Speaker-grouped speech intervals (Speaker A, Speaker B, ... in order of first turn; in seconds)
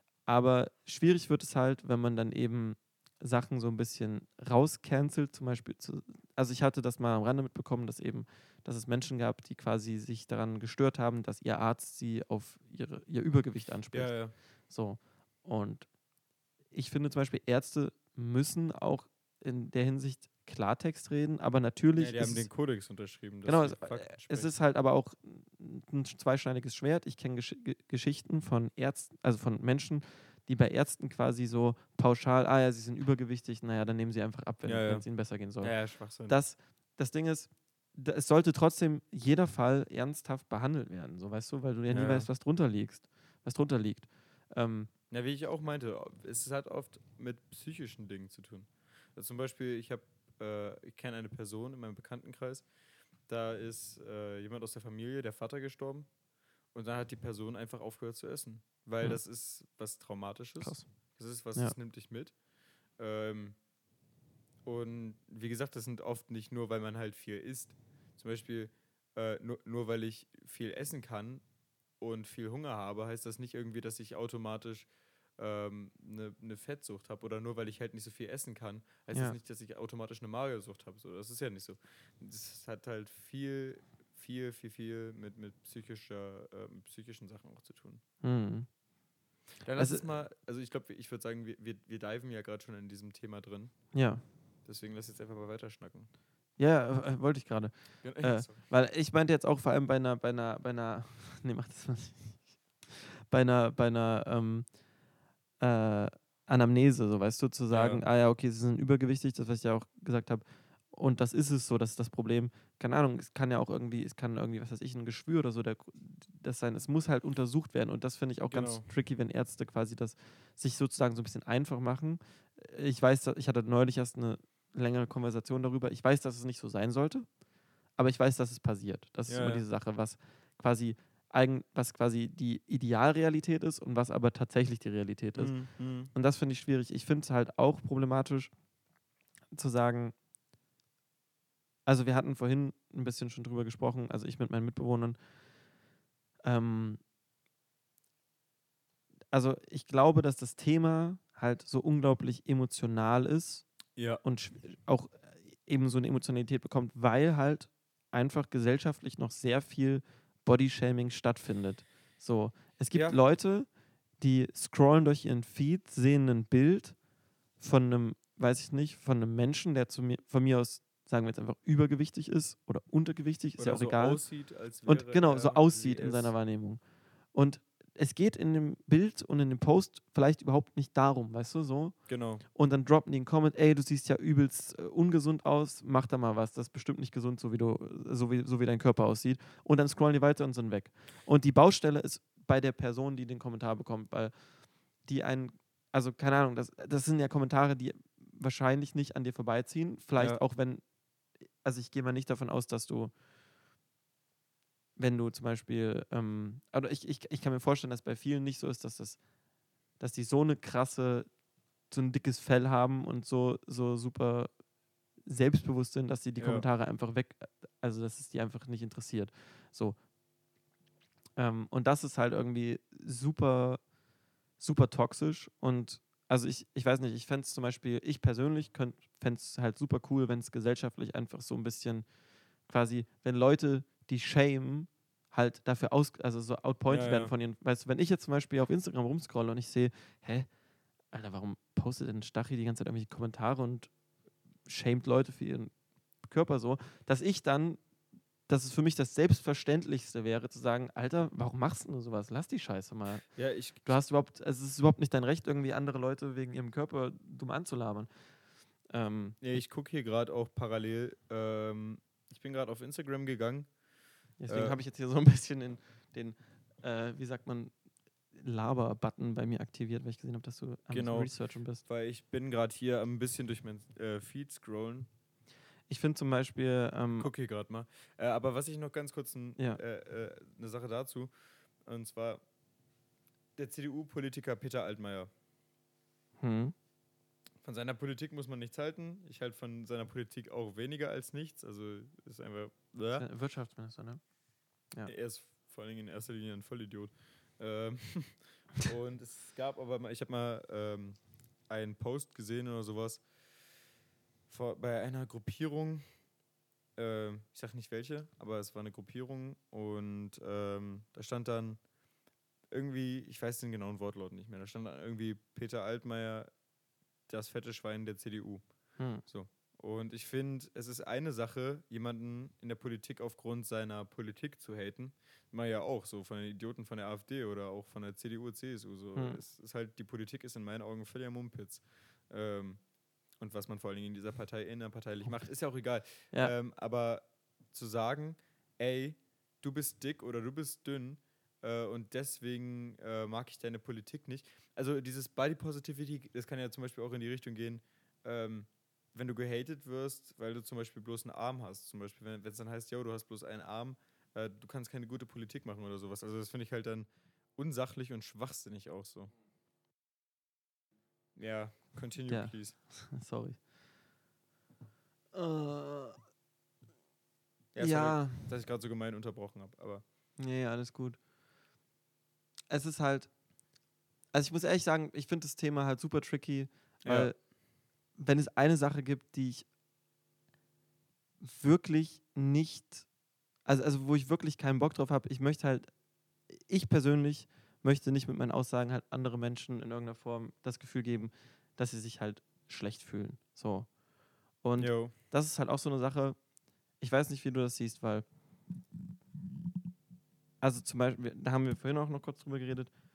Speaker A: 0.2-15.9, 16.7-22.5, 23.4-35.8, 36.3-44.9, 60.6-60.9, 88.2-88.7, 89.8-90.0, 93.9-94.2, 96.6-104.7, 105.6-127.2, 128.0-138.5, 139.5-140.1, 141.8-145.2, 146.4-147.0, 149.3-153.6, 154.2-163.7, 164.2-167.0, 167.6-174.2, 174.8-176.8, 177.3-194.4, 195.0-200.8, 201.6-203.1, 205.0-209.2, 210.0-211.3, 211.9-214.5, 215.2-220.0, 221.3-223.8, 224.6-232.1, 232.7-240.5, 241.1-243.9, 244.7-245.7, 246.2-247.8, 248.5-253.3, 253.8-258.1, 258.9-259.6, 264.4-267.7, 268.3-271.8, 275.9-277.3, 286.4-286.7, 293.1-294.2, 319.0-319.2, 362.3-363.6, 365.3-366.2, 367.8-368.5, 370.4-371.2, 372.7-373.3, 374.3-377.4, 378.1-379.6, 381.4-383.1, 383.6-385.9, 386.5-393.9, 394.6-396.4, 397.0-398.2, 400.6-402.9
Speaker B: 13.9-14.3, 21.9-24.5, 34.6-35.0, 35.6-36.4, 41.9-42.3, 45.1-52.7, 53.2-56.1, 56.7-62.4, 63.0-63.6, 64.6-71.4, 72.0-88.0, 89.6-93.9, 94.6-96.1, 98.0-98.6, 107.7-108.0, 118.5-118.9, 129.3-129.6, 135.3-136.1, 153.9-154.2, 162.9-163.2, 173.6-176.3, 182.1-182.4, 200.2-200.4, 216.4-216.7, 236.9-237.3, 253.3-254.0, 259.4-263.7, 264.5-264.8, 270.9-271.3, 271.8-275.1, 277.1-281.3, 281.8-282.4, 283.6-285.3, 287.6-293.3, 295.0-303.2, 304.5-306.1, 306.9-311.8, 312.7-316.5, 317.3-318.6, 319.2-332.8, 333.4-359.3, 361.4-362.8, 367.7-370.0, 377.0-377.3, 394.8-395.1